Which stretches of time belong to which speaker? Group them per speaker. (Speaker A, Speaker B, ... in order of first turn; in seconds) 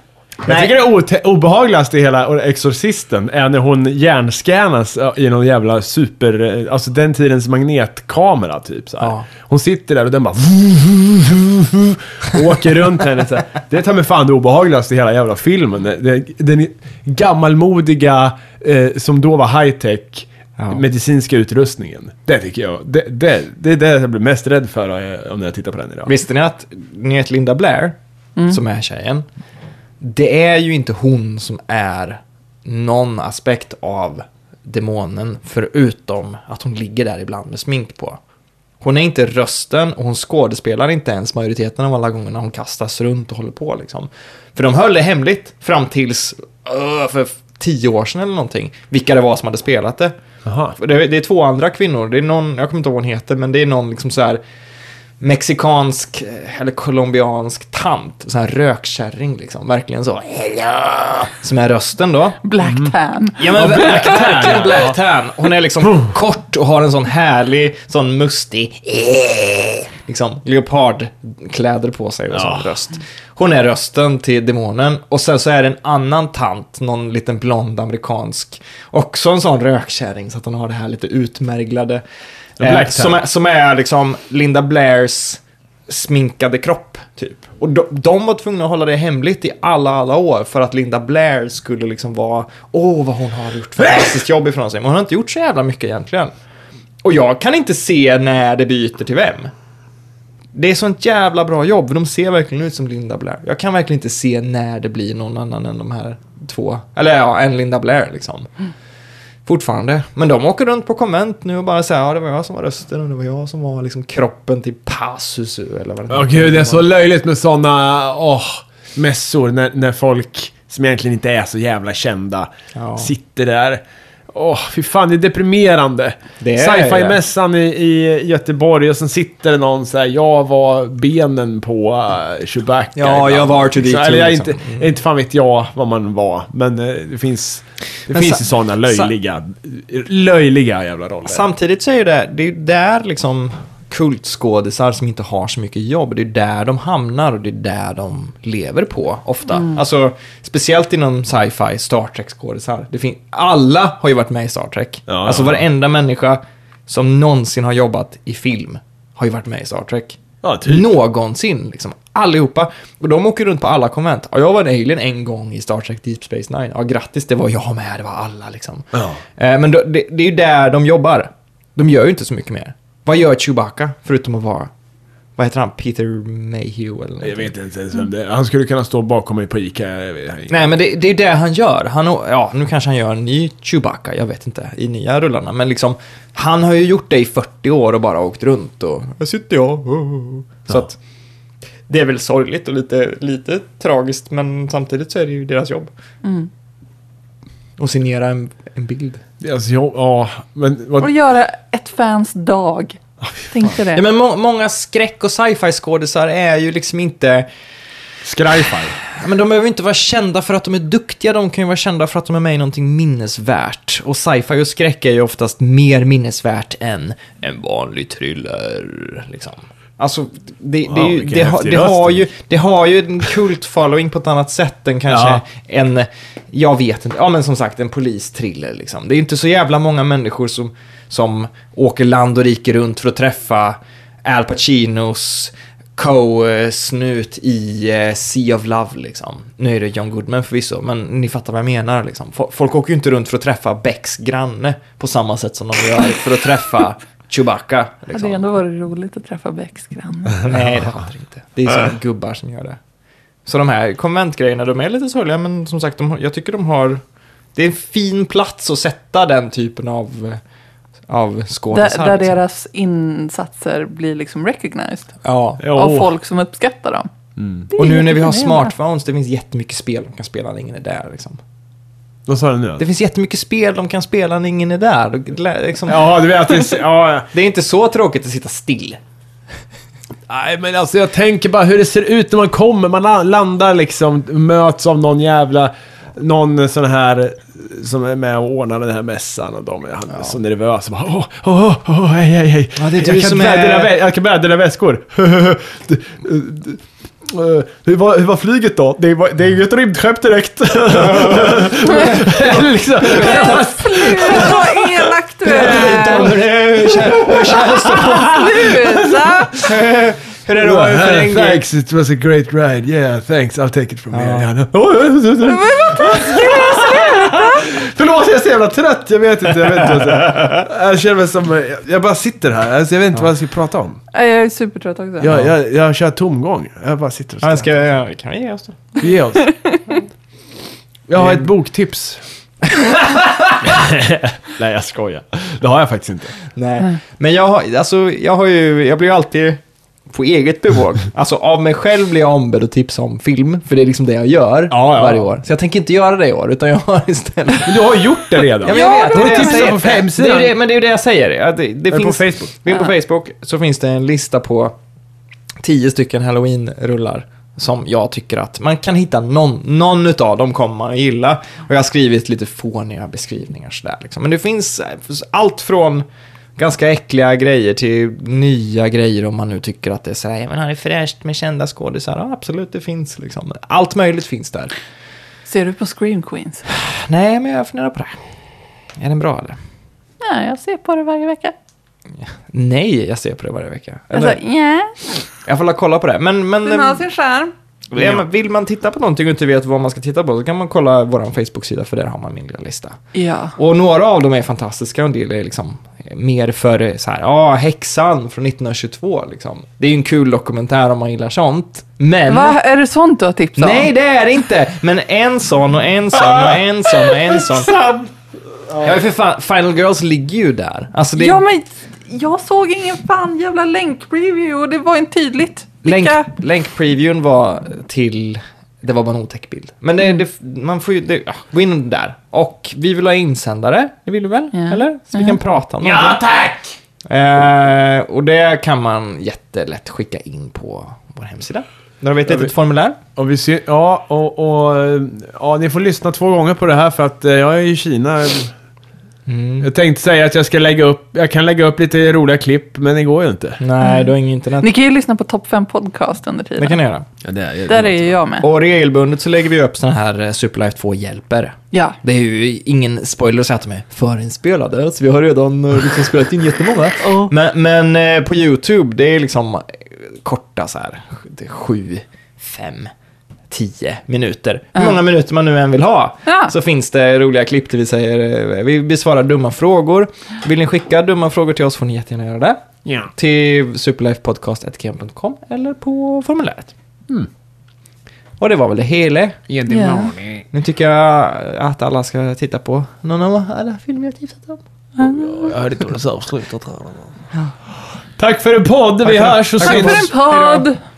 Speaker A: 0.4-26.1, 50.4-50.8, 62.6-62.9, 63.5-65.0, 72.3-72.7, 82.6-83.2, 116.1-141.4, 155.1-155.7, 160.4-160.9, 168.9-169.2, 177.2-180.7, 199.4-201.1, 203.2-203.7, 208.2-209.0, 220.9-222.3, 225.1-225.4, 265.6-266.1, 267.4-267.7, 272.2-272.8, 275.9-277.3, 280.3-309.7, 310.6-324.0, 325.2-327.7, 329.0-329.5, 331.1-332.2, 333.6-336.4, 344.7-345.3, 347.6-350.5, 351.9-352.5, 388.0-388.2, 406.3-406.6, 407.3-408.1, 408.7-408.9, 425.8-426.7, 433.1-438.5, 439.6-443.6, 447.2-448.2, 472.8-473.1, 479.5-480.4, 485.0-487.1, 488.2-490.1
Speaker B: 0.5-0.8, 9.0-9.3, 26.0-29.3, 30.0-38.2, 38.8-50.1, 50.7-54.4, 55.2-62.4, 63.4-82.0, 82.6-96.3, 97.0-99.5, 100.5-108.5, 109.4-116.9, 122.7-123.1, 126.4-127.2, 132.9-134.9, 138.1-139.1, 141.2-174.7, 175.4-177.5, 180.5-191.0, 191.9-195.9, 197.8-199.2, 203.9-207.5, 209.1-248.5, 250.4-252.8, 253.4-257.0, 257.5-260.4, 261.1-262.4, 265.2-265.6, 267.8-271.4, 272.8-276.2, 277.3-279.0, 292.8-293.9, 301.0-304.6, 305.4-308.4, 309.6-311.6, 314.1-314.5, 327.4-328.8, 331.2-331.5, 332.7-333.6, 336.5-348.0, 348.6-354.7, 355.6-374.7, 376.7-378.1, 379.0-379.6, 382.2-384.4, 385.4-387.0, 387.9-393.0, 393.6-402.6, 403.6-407.8, 408.8-411.4, 415.8-426.2, 427.1-433.0, 439.2-439.7, 443.6-444.7, 446.6-447.1, 448.4-462.9, 463.5-472.6, 473.1-476.7, 478.4-479.4, 480.5-484.6, 489.0-490.6
Speaker C: 62.4-64.2, 196.2-196.5, 201.0-204.0, 248.1-250.5, 261.7-265.2, 265.7-267.1, 267.7-268.7, 303.2-306.3, 307.3-309.6, 315.4-317.7, 324.1-325.3, 348.6-349.9, 375.4-376.6, 380.2-381.5, 384.1-385.0, 386.6-387.5, 393.1-393.5, 402.3-403.9, 411.1-416.3, 424.5-425.4, 443.8-446.8, 447.7-448.5, 451.7-452.0, 457.0-457.3, 466.3-466.5, 479.7-480.1, 485.0-485.5, 489.6-490.8